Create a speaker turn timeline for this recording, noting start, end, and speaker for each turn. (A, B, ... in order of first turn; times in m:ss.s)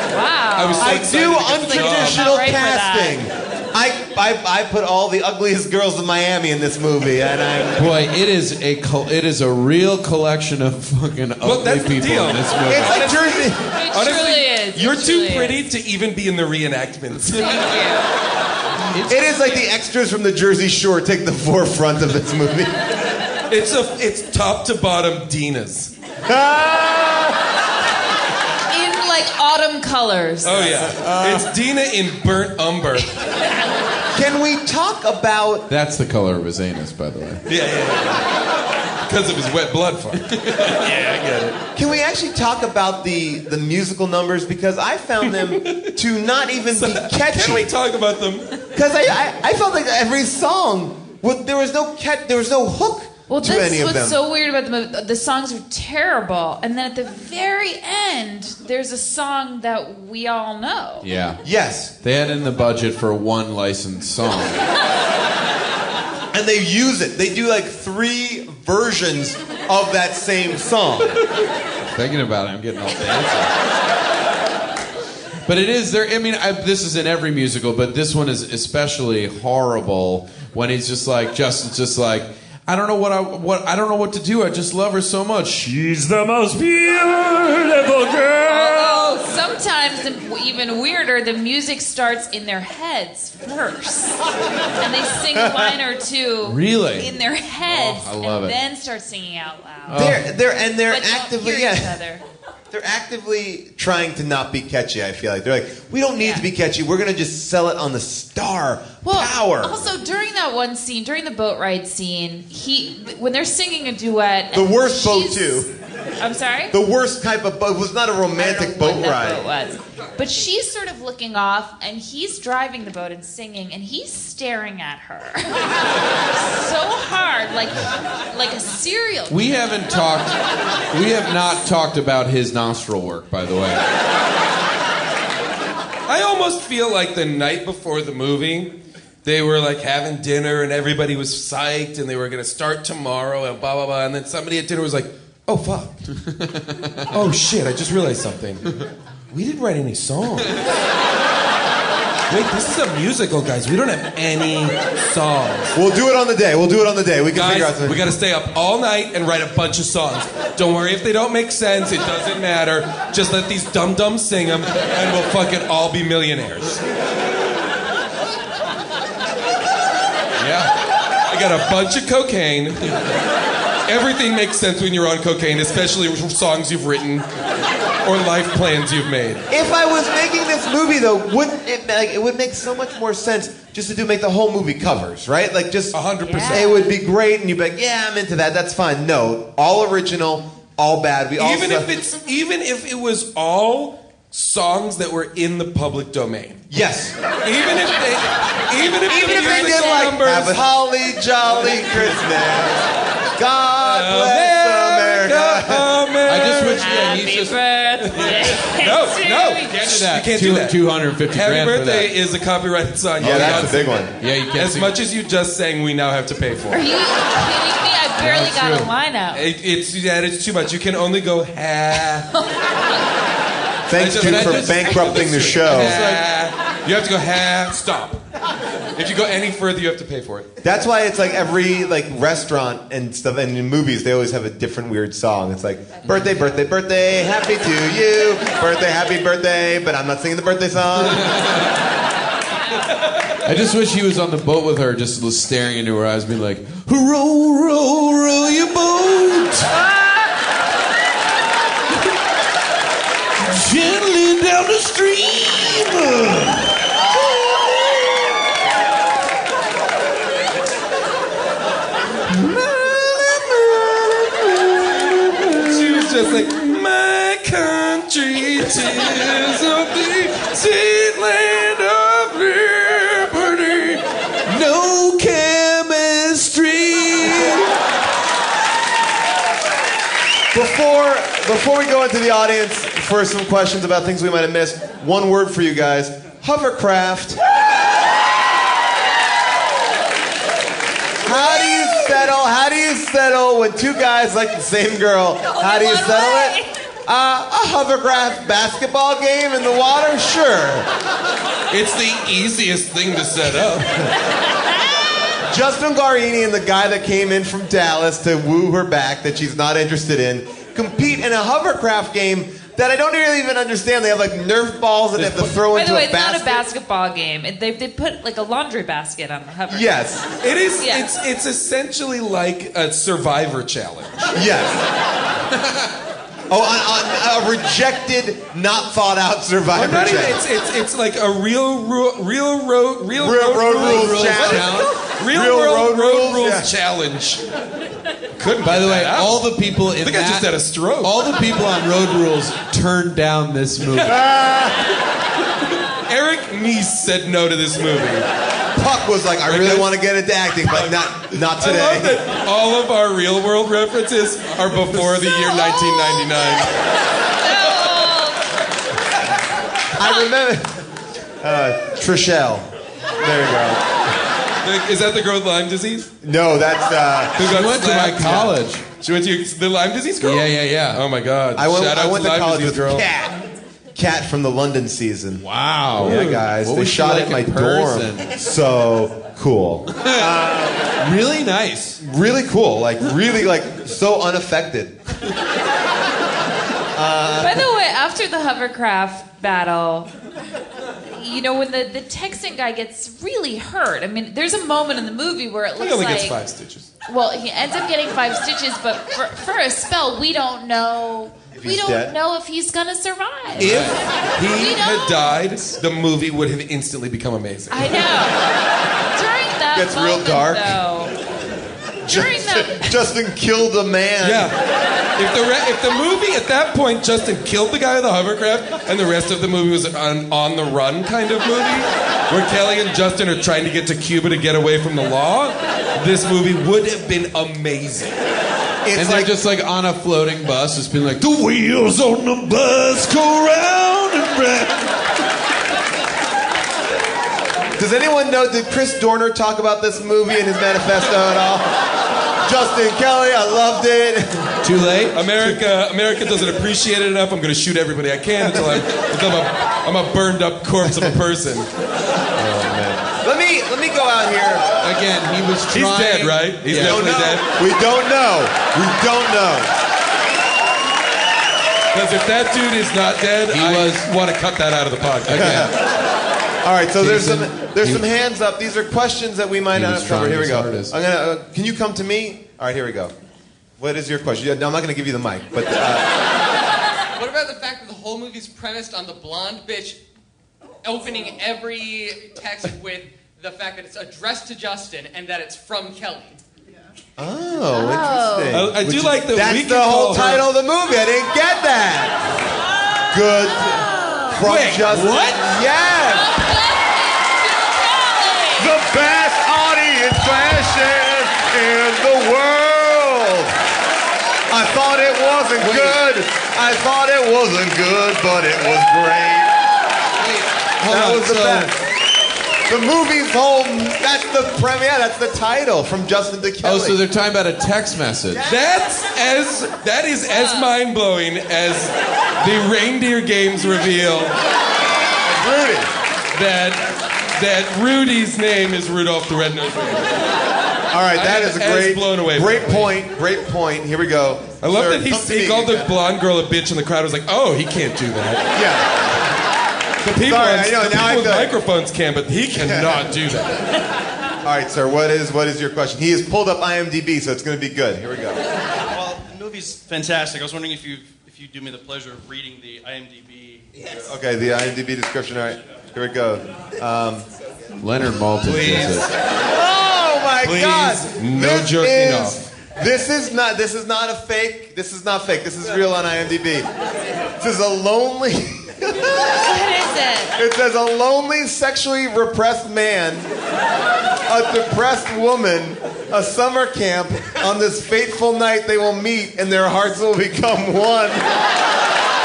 0:00.1-0:03.2 A
0:00.5-0:02.3 B
0:00.8-0:08.0 C
0:07.8-0:13.1 D
0:11.4-0:17.6 B
0:12.7-0:13.6 C
0:13.2-0:15.6 A
0:17.3-0:18.1 A
0:18.9-0:19.4 D
0:19.1-0:22.7 C
0:23.5-0:25.9 B
0:26.2-0:27.3 C
0:28.7-0:30.7 A
0:30.4-0:33.1 B
0:30.8-0:31.5 C
0:34.1-0:35.7 C
0:35.7-0:37.4 D
0:37.5-0:38.2 B
0:39.0-0:41.6 B
0:40.4-0:40.8 D
0:41.7-0:47.7 C
0:45.2-0:45.9 B
0:46.7-0:48.5 B
0:48.7-0:54.2 C
0:53.3-1:01.1 A
1:01.0-1:01.4 D
1:01.4-1:01.9 C
1:02.0-1:04.6 D
1:06.3-1:11.2 C
1:11.9-1:13.5 D
1:15.4-1:28.5 D
1:28.4-1:34.2 A
1:34.8-1:40.1 A
1:35.3-1:35.8 C
1:36.4-1:38.6 D
1:39.9-1:40.2 D
1:39.9-1:42.0 C
1:40.8-1:42.2 A
1:42.7-1:49.8 C
1:46.2-1:46.4 A
1:49.0-1:55.7 A
1:54.5-1:55.7 C
1:56.2-1:56.7 A
1:56.7-1:59.4 C
1:58.4-2:05.8 A
2:06.3-2:09.6 A
2:09.3-2:10.4 D
2:10.9-2:13.8 D
2:16.1-2:18.7 B
2:19.2-2:25.9 B
2:26.2-2:27.1 D
2:27.1-2:28.7 B
2:29.3-2:30.6 B
2:32.3-2:35.8 B
2:35.7-2:38.0 C
2:37.3-2:46.8 B
2:50.4-2:50.7 B
2:51.3-2:52.9 B
2:53.8-2:57.2 B
2:58.0-2:59.4 B
2:59.5-3:11.9 C
3:05.9-3:06.7 B
3:06.2-3:06.9 A
3:11.4-3:16.6 B
3:16.7-3:17.1 C
3:17.4-3:20.6 B
3:19.1-3:20.1 A
3:19.1-3:22.8 C
3:23.4-3:25.9 C
3:23.8-3:27.0 B
3:26.2-3:28.6 D
3:26.8-3:29.7 A
3:28.1-3:36.8 B
3:29.3-3:32.1 D
3:33.2-3:34.1 C
3:33.2-3:34.9 D
3:36.7-3:39.4 A
3:38.2-3:38.9 D
3:39.3-3:42.3 B
3:43.9-3:46.0 C
3:44.0-3:48.2 B
3:44.2-3:46.2 D
3:49.0-3:50.5 B
3:50.6-4:01.2 C
4:01.0-4:01.5 D
4:03.4-4:09.8 D
4:13.4-4:18.1 D
4:22.3-4:25.8 D
4:25.6-4:34.0 B
4:34.5-4:37.6 D
4:40.5-4:47.4 C
4:51.2-5:00.9 C
4:55.5-4:56.7 A
5:01.7-5:04.1 B
5:05.4-5:16.6 C
5:15.5-5:20.0 A
5:19.7-5:20.3 C
5:20.4-5:24.4 B
5:20.8-5:21.1 A
5:24.3-5:24.8 C
5:26.5-5:30.4 C
5:29.7-5:37.4 B
5:33.2-5:36.7 C
5:33.8-5:35.0 D
5:38.4-5:41.2 B
5:38.6-5:44.2 D
5:44.0-5:44.8 C
5:46.1-5:48.3 B
5:48.7-5:52.2 C
5:49.4-5:49.9 B
5:50.7-5:56.8 B
5:55.2-5:56.5 A
5:57.4-5:58.4 A
6:00.0-6:00.8 C
6:00.0-6:00.3 A
6:01.4-6:02.7 C
6:03.2-6:03.8 C
6:04.6-6:06.1 B
6:06.2-6:07.4 C
6:07.4-6:13.1 B
6:07.4-6:08.8 D
6:10.2-6:11.0 D
6:11.6-6:13.4 C
6:13.9-6:15.4 C
6:15.4-6:18.3 D
6:16.0-6:20.8 C
6:16.0-6:16.3 B
6:20.0-6:22.0 D
6:22.0-6:25.0 C
6:26.9-6:27.7 C
6:27.4-6:30.1 A
6:31.1-6:36.4 A
6:35.8-6:36.9 B
6:37.1-6:43.7 A
6:41.5-6:42.1 C
6:43.6-6:44.0 D
6:43.6-6:48.0 B
6:44.5-6:45.3 A
6:47.7-6:48.4 A
6:49.1-6:51.2 A
6:49.7-6:50.8 C
6:52.0-6:54.5 C
6:52.1-6:53.0 A
6:54.2-6:54.6 B
6:55.2-7:08.2 B
7:08.8-7:09.3 C
7:08.9-7:14.7 D
7:17.8-7:21.7 C
7:22.4-7:24.5 C
7:24.6-7:25.6 D
7:25.1-7:31.7 B
7:28.4-7:28.8 C
7:30.8-7:31.2 C
7:32.4-7:34.7 C
7:34.8-7:37.1 D
7:35.7-7:37.5 B
7:36.7-7:39.7 C
7:41.9-7:45.7 B
7:43.5-7:44.1 D
7:45.2-7:45.7 D
7:45.3-7:45.8 C
7:46.6-7:53.1 C
7:47.0-7:48.0 D
7:49.7-7:50.9 D
7:53.8-7:56.1 C
7:57.2-8:00.0 E
8:00.8-8:06.4 E
8:07.2-8:12.2 C
8:07.7-8:08.6 A
8:08.5-8:10.4 B
8:13.1-8:16.4 C
8:14.4-8:15.4 B
8:15.9-8:18.7 A
8:18.6-8:23.5 C
8:24.5-8:29.5 C
8:25.6-8:26.0 D
8:30.2-8:31.7 D
8:30.8-8:31.8 C
8:32.7-8:37.0 C
8:36.6-8:38.5 D
8:38.4-8:44.4 B
8:45.2-8:45.9 C
8:46.3-8:46.8 B
8:47.4-8:50.1 B
8:50.9-8:55.9 C
8:51.1-8:52.9 B
8:54.6-8:58.5 B
8:58.5-8:59.0 C
9:00.0-9:03.6 B
9:00.2-9:01.6 C
9:02.5-9:03.1 C
9:04.4-9:08.4 C
9:08.9-9:13.9 F
9:14.1-9:17.2 C
9:17.8-9:19.1 D
9:18.4-9:19.1 B
9:19.5-9:26.7 C
9:20.4-9:22.4 B
9:27.4-9:29.4 C
9:29.4-9:30.3 A
9:30.4-9:33.3 C
9:34.3-9:41.2 C